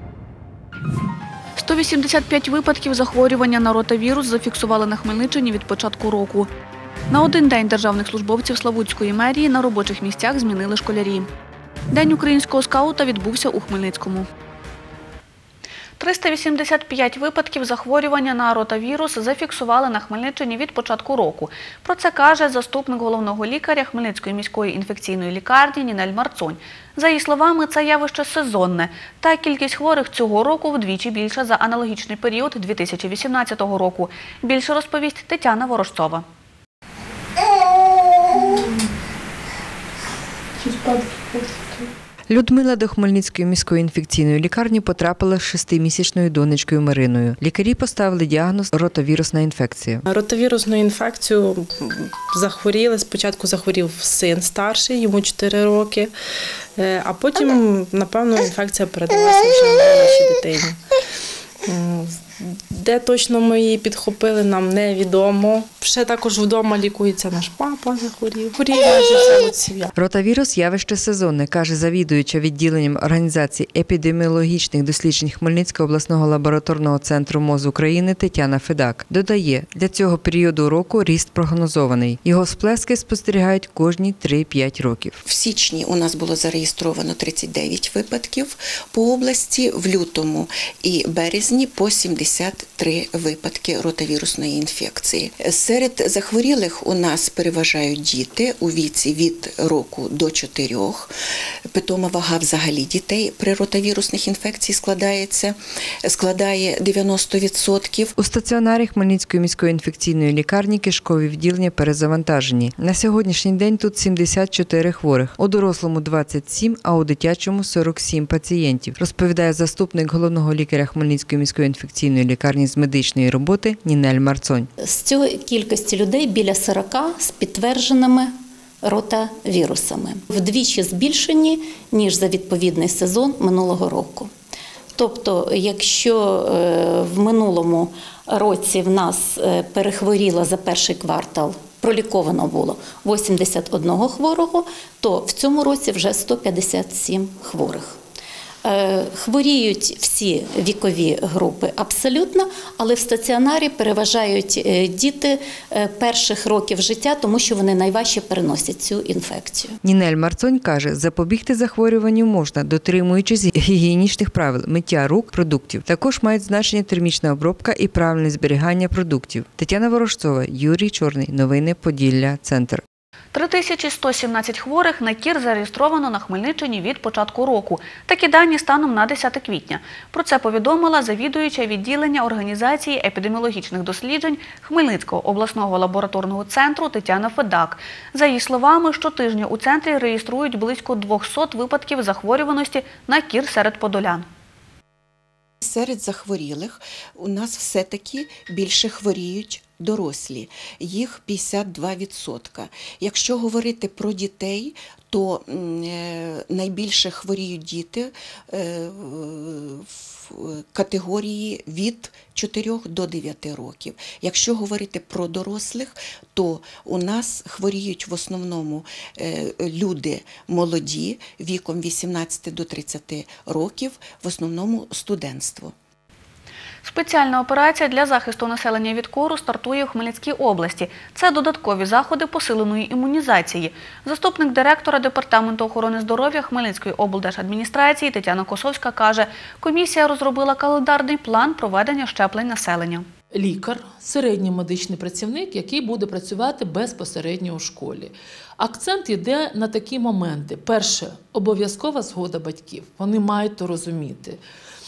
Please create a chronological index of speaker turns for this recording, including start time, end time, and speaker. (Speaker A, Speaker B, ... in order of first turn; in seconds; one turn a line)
Speaker A: 1.6-6.5
Speaker A: 7.1-11.3
Speaker A: 11.9-14.3
Speaker A: 16.0-36.2
Speaker B: 40.6-41.8
Speaker C: 42.3-50.1
Speaker B: 50.1-51.6
Speaker B: 52.3-56.1
Speaker B: 56.8-60.8
Speaker B: 61.7-69.9
Speaker C: 69.9-85.2
Speaker D: 85.2-101.1
Speaker D: 101.7-108.1
Speaker C: 108.2-124.7
Speaker E: 124.8-128.3
Speaker E: 128.8-134.3
Speaker E: 135.0-148.0
Speaker E: 148.7-159.8
Speaker C: 159.8-172.8
Speaker A: 173.3-194.3
Speaker D: 195.6-225.7
Speaker A: 226.8-243.1
Speaker F: 243.3-254.4